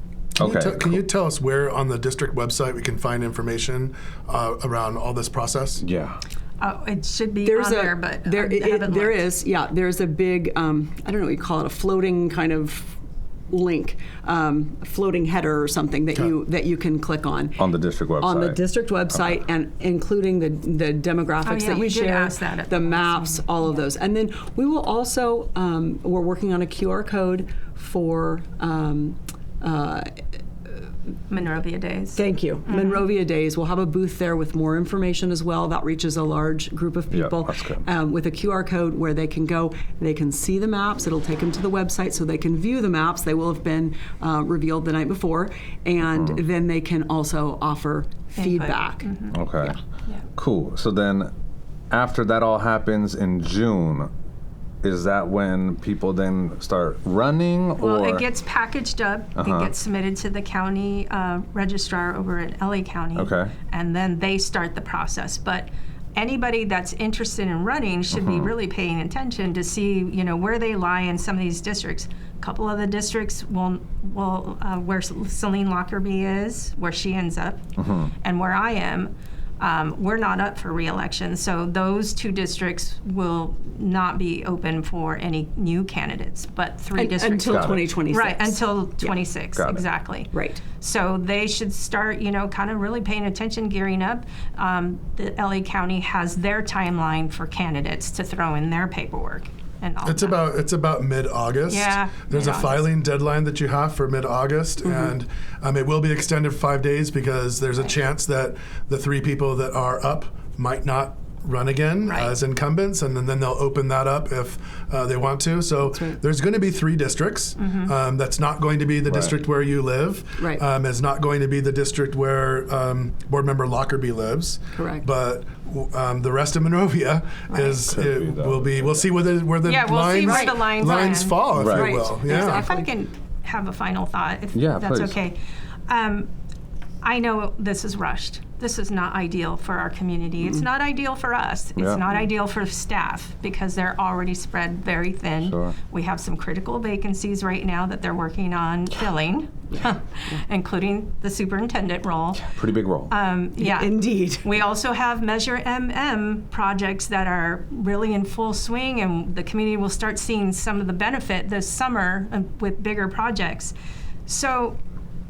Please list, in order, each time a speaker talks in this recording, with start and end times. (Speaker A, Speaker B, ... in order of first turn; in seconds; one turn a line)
Speaker A: 0.3-5.8
Speaker B: 0.4-1.0
Speaker B: 5.8-6.2
Speaker C: 6.6-9.3
Speaker D: 7.4-13.0
Speaker D: 13.5-17.6
Speaker B: 17.6-18.6
Speaker D: 18.2-30.2
Speaker C: 21.4-23.8
Speaker C: 31.3-33.0
Speaker D: 32.1-49.1
Speaker B: 37.1-37.8
Speaker C: 48.4-49.4
Speaker B: 49.3-49.8
Speaker B: 50.4-51.3
Speaker B: 51.9-54.1
Speaker B: 54.8-58.2
Speaker C: 57.8-77.6
Speaker B: 59.4-59.7
Speaker B: 63.1-63.5
Speaker B: 68.1-68.5
Speaker B: 77.8-78.1
Speaker C: 78.2-100.4
Speaker D: 86.9-89.2
Speaker B: 87.5-87.8
Speaker D: 90.3-90.6
Speaker A: 100.0-132.7
Speaker C: 101.7-102.9
Speaker C: 112.0-112.3
Speaker D: 115.9-116.2
Speaker C: 117.6-117.9
Speaker B: 119.1-119.3
Speaker D: 120.4-120.6
Speaker D: 124.7-125.1
Speaker B: 127.8-129.1
Speaker C: 129.6-136.3
Speaker D: 130.2-132.9
Speaker B: 131.6-131.9
Speaker B: 134.5-135.2
Speaker C: 137.0-152.5
Speaker B: 141.8-142.1
Speaker B: 145.4-145.8
Speaker B: 152.5-153.1
Speaker C: 153.1-163.7
Speaker D: 153.6-154.5
Speaker C: 164.2-164.8